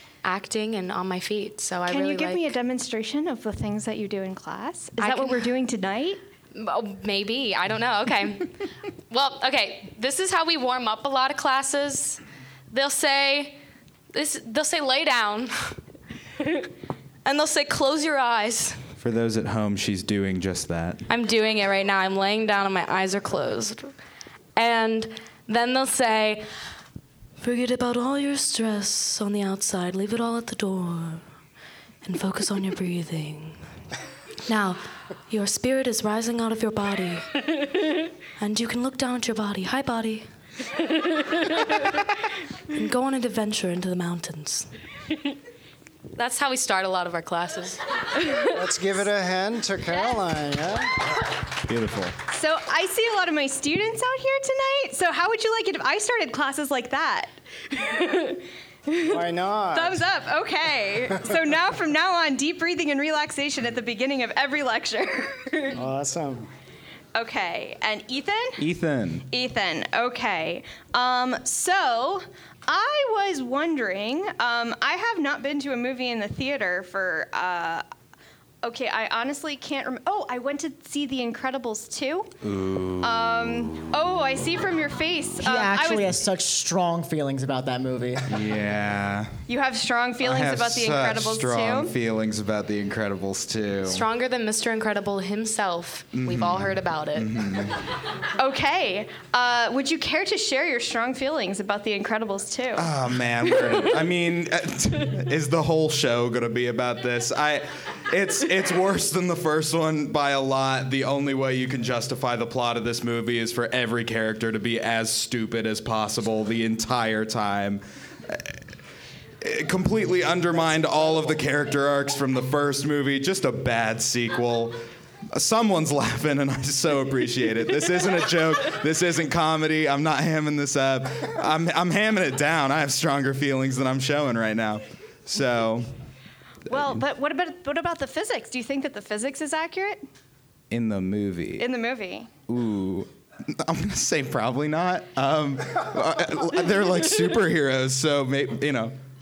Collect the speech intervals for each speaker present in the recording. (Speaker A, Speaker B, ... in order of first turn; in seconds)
Speaker A: 0.2-2.5, 5.0-5.5, 6.5-8.6, 9.1-13.6, 14.1-15.7, 17.2-18.8, 21.1-23.9, 24.6-26.5, 27.4-31.2, 32.0-33.6, 34.5-37.4, 38.4-40.3, 41.4-41.8, 42.7-44.7, 46.1-47.9, 93.8-97.3
Speaker B: 1.9-6.2, 52.3-59.2, 59.7-65.8, 67.2-68.6, 69.3-77.8, 78.6-82.4, 83.0-86.2, 89.5-91.9, 98.4-102.9, 136.7-140.0, 141.6-142.3
Speaker C: 19.0-21.0, 51.6-52.2, 68.6-69.2, 82.4-83.1, 88.3-89.4, 90.2-94.1, 96.1-97.8, 102.8-118.6, 119.4-124.8, 125.3-135.9, 140.7-141.7, 142.5-149.0
Speaker D: 48.5-51.2, 59.0-60.0, 65.7-66.5
Speaker E: 85.4-88.4